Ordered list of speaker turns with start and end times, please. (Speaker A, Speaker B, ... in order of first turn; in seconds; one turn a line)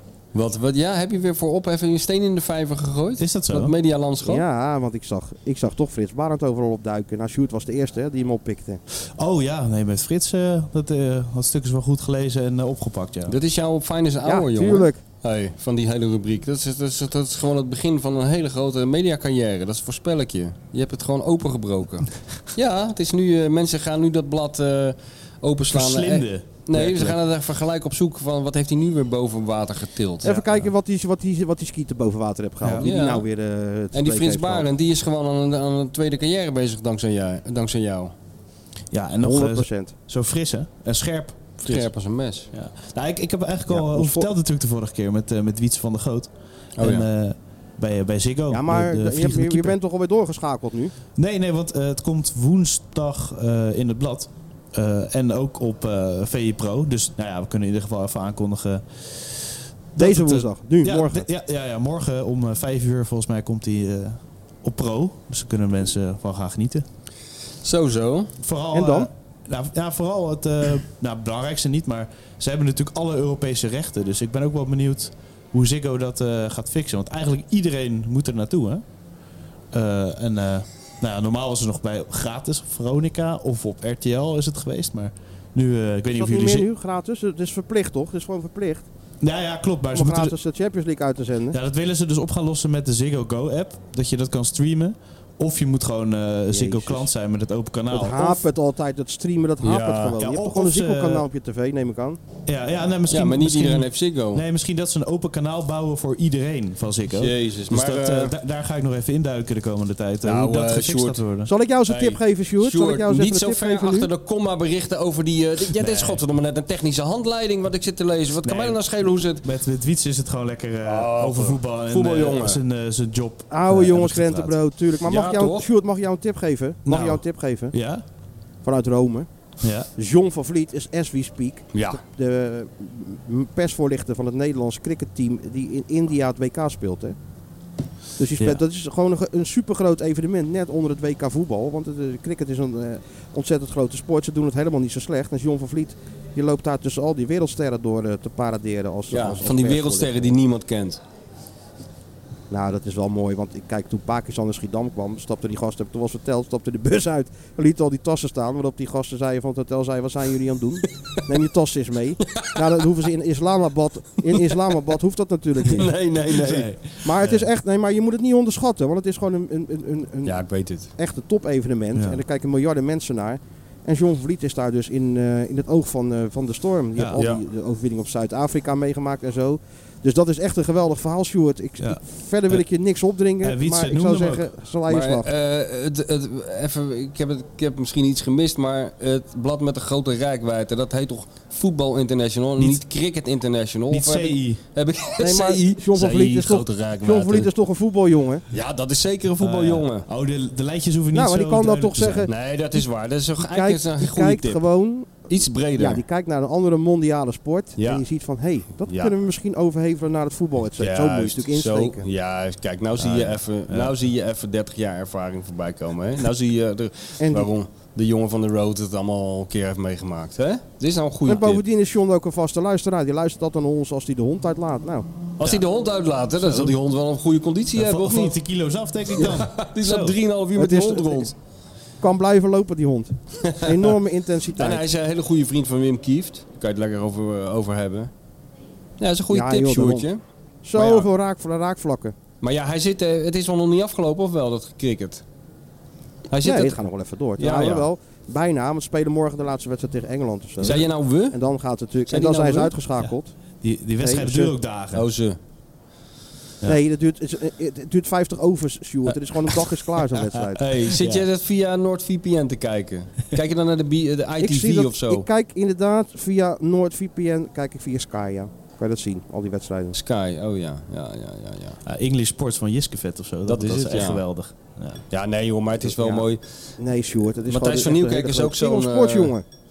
Speaker A: 0.3-4.4
Speaker B: 3.2-3.7
Speaker C: 4.2-8.8
Speaker B: 9.2-13.3
Speaker A: 13.3-30.4
Speaker C: 14.2-15.0
Speaker B: 25.7-27.1
Speaker C: 30.2-34.7
Speaker A: 32.8-33.2
Speaker A: 33.9-38.1
Speaker B: 38.9-41.7
Speaker C: 39.2-39.9
Speaker A: 41.6-42.5
Speaker B: 42.5-49.8
Speaker C: 43.7-44.3
Speaker A: 46.8-47.0
Speaker C: 48.5-50.9
Speaker B: 51.1-66.8
Speaker C: 60.0-61.3
Speaker A: 67.6-68.3
Speaker B: 68.4-78.8
Speaker C: 68.7-69.1
Speaker B: 79.7-86.7
Speaker C: 86.1-88.8
Speaker B: 89.2-90.3
Speaker C: 89.9-91.6
Speaker B: 91.5-98.4
Speaker C: 96.5-97.0
Speaker C: 97.9-102.2
Speaker A: 99.6-100.2
Speaker B: 100.2-101.2
Speaker B: 102.5-111.5
Speaker A: 103.1-104.4
Speaker A: 107.1-108.3
Speaker A: 110.2-111.2
Speaker C: 111.5-114.1
Speaker A: 111.9-119.5
Speaker B: 115.8-116.2
Speaker B: 118.4-124.5
Speaker A: 120.8-122.6
Speaker C: 123.5-127.8
Speaker A: 125.0-125.7
Speaker B: 126.8-128.0
Speaker C: 128.6-129.3
Speaker B: 129.6-129.9
Speaker C: 129.9-137.2
Speaker A: 131.7-132.0
Speaker C: 138.2-150.4
Speaker A: 149.1-151.0
Speaker C: 152.5-165.9
Speaker A: 165.7-166.7
Speaker B: 166.3-167.4
Speaker C: 167.0-170.4
Speaker A: 170.2-170.9
Speaker C: 170.9-185.3
Speaker B: 171.9-172.2
Speaker B: 177.0-177.2
Speaker A: 177.2-177.4
Speaker B: 181.8-182.6
Speaker B: 183.4-184.4
Speaker A: 184.9-197.5
Speaker B: 193.9-194.6
Speaker C: 195.2-198.4
Speaker A: 198.5-200.1
Speaker B: 199.4-202.3
Speaker C: 201.1-202.8
Speaker A: 202.3-206.0
Speaker C: 203.4-212.1
Speaker A: 207.8-208.0
Speaker A: 208.9-209.1
Speaker A: 210.8-221.6
Speaker B: 213.0-213.9
Speaker C: 217.2-217.5
Speaker C: 221.2-225.5
Speaker A: 225.4-228.3
Speaker B: 226.4-226.8
Speaker B: 227.8-230.2
Speaker A: 229.1-231.3
Speaker C: 230.5-231.3
Speaker C: 232.0-234.8
Speaker A: 233.5-233.9
Speaker A: 234.6-238.1
Speaker A: 239.0-240.2
Speaker C: 239.3-240.1
Speaker C: 240.6-242.1
Speaker A: 240.7-241.1
Speaker A: 242.4-245.2
Speaker A: 246.3-246.8
Speaker C: 246.4-253.3
Speaker A: 247.3-247.9
Speaker A: 250.6-251.4
Speaker A: 252.1-252.7
Speaker B: 253.0-255.0
Speaker C: 254.0-254.5
Speaker A: 254.9-255.4
Speaker C: 256.6-260.6
Speaker A: 260.6-265.3
Speaker B: 260.8-261.2
Speaker C: 264.4-270.0
Speaker A: 269.9-271.8
Speaker B: 271.9-275.0
Speaker A: 273.4-274.2
Speaker A: 275.1-276.8
Speaker C: 275.8-276.2
Speaker C: 276.8-279.4
Speaker A: 277.5-279.3